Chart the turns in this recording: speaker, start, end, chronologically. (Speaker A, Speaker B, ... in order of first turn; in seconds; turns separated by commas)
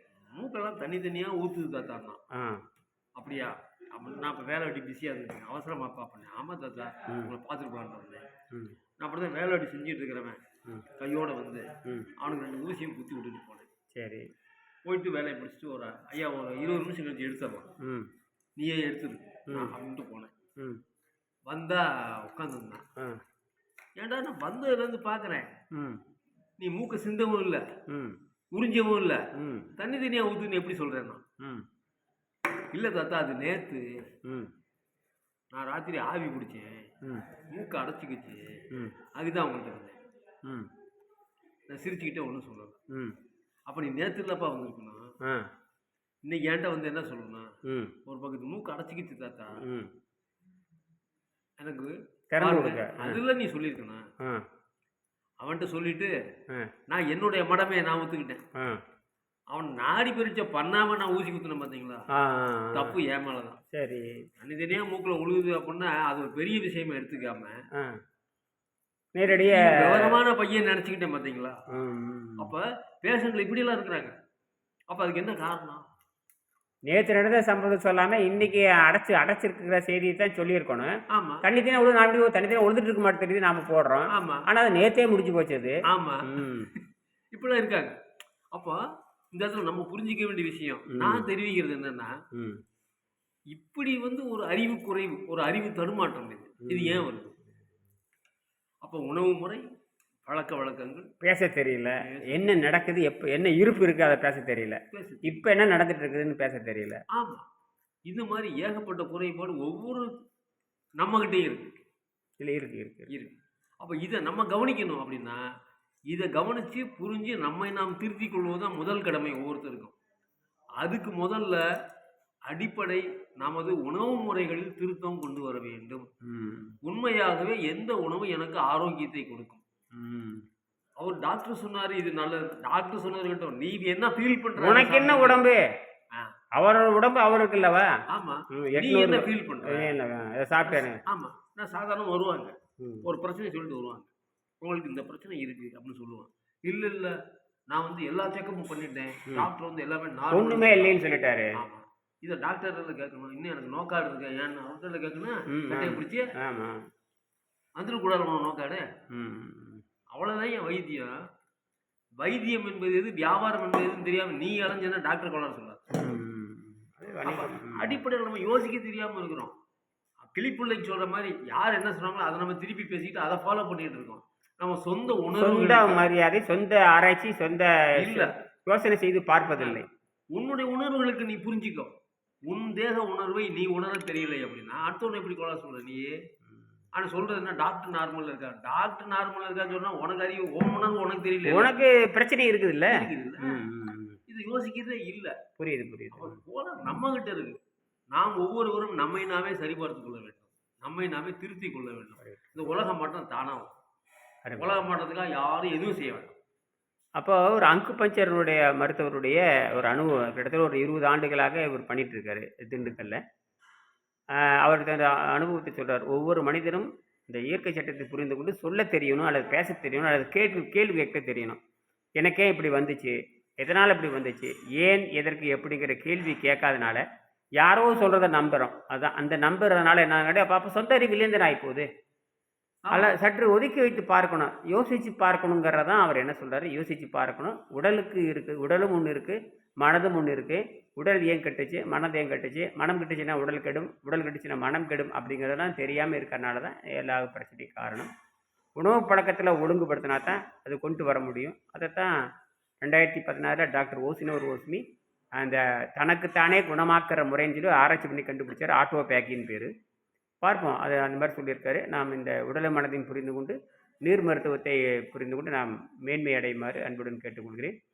Speaker A: 0.3-2.2, Speaker B: 2.3-2.6, Speaker A: 3.2-8.3, Speaker A: 9.0-10.4, Speaker A: 10.9-13.7, Speaker B: 11.8-12.1, Speaker B: 13.9-14.3, Speaker A: 14.8-17.7, Speaker B: 17.8-18.1, Speaker A: 18.6-20.3, Speaker B: 19.5-19.7, Speaker A: 21.5-22.8, Speaker A: 24.0-25.5, Speaker B: 25.8-26.0, Speaker A: 26.6-27.7, Speaker B: 27.9-28.2, Speaker A: 28.5-31.2, Speaker B: 29.4-29.7, Speaker A: 32.7-33.9, Speaker B: 34.3-34.5, Speaker A: 35.5-36.9, Speaker A: 37.5-38.6, Speaker A: 39.1-40.0, Speaker A: 41.7-42.8, Speaker B: 42.9-43.2, Speaker A: 43.7-45.1, Speaker A: 46.2-47.5, Speaker B: 47.7-47.9, Speaker A: 48.0-49.6, Speaker A: 51.6-54.1, Speaker B: 52.3-53.2, Speaker A: 55.4-56.1, Speaker A: 56.9-58.4, Speaker A: 59.5-62.1, Speaker B: 62.2-63.0, Speaker A: 62.7-63.6, Speaker B: 63.7-64.1, Speaker A: 64.4-67.6, Speaker B: 69.2-70.2, Speaker A: 69.3-71.6, Speaker B: 71.7-72.5, Speaker A: 72.4-74.2, Speaker A: 74.9-75.8, Speaker B: 76.9-86.7, Speaker A: 81.1-81.5, Speaker A: 84.1-84.5, Speaker A: 85.9-86.5, Speaker A: 87.3-88.0, Speaker A: 88.5-88.8, Speaker A: 89.3-92.1, Speaker B: 90.9-91.3, Speaker B: 92.3-92.6, Speaker A: 93.5-97.4, Speaker B: 96.7-97.1, Speaker A: 98.8-99.6, Speaker A: 100.2-101.1, Speaker B: 101.2-107.0, Speaker A: 102.0-102.5, Speaker A: 104.9-105.5, Speaker A: 107.1-107.5, Speaker A: 108.1-110.1, Speaker A: 111.0-111.8, Speaker B: 112.4-113.1, Speaker A: 113.1-115.4, Speaker A: 116.1-120.0, Speaker A: 120.8-121.6, Speaker A: 122.5-126.1, Speaker B: 126.2-126.8, Speaker A: 126.8-129.6, Speaker B: 129.9-130.5, Speaker A: 131.0-135.5, Speaker B: 134.6-135.6, Speaker B: 136.6-137.9, Speaker A: 138.1-139.9, Speaker B: 138.5-141.0, Speaker A: 140.7-144.1, Speaker B: 142.8-143.1, Speaker A: 144.6-147.2, Speaker A: 147.7-151.0, Speaker B: 150.3-151.5, Speaker A: 151.6-156.3, Speaker B: 155.5-156.8, Speaker A: 157.8-158.9, Speaker B: 159.1-159.8, Speaker A: 160.1-161.2, Speaker A: 162.2-165.9, Speaker B: 165.9-168.0, Speaker A: 167.2-169.6, Speaker A: 170.2-176.1, Speaker B: 175.3-179.9, Speaker A: 178.0-178.3, Speaker A: 179.5-181.9, Speaker A: 182.5-186.2, Speaker A: 186.9-191.7, Speaker B: 191.4-194.2, Speaker A: 192.9-193.6, Speaker A: 194.3-195.4, Speaker B: 195.6-196.4, Speaker A: 196.1-197.6, Speaker A: 198.1-203.7, Speaker B: 204.4-204.8, Speaker A: 204.6-206.3, Speaker B: 207.2-213.2, Speaker B: 214.6-221.6, Speaker B: 222.2-227.0, Speaker B: 227.6-231.9, Speaker A: 232.9-233.1, Speaker B: 232.9-248.1, Speaker B: 248.8-252.1, Speaker B: 252.8-254.8, Speaker B: 255.4-259.7, Speaker B: 260.4-267.7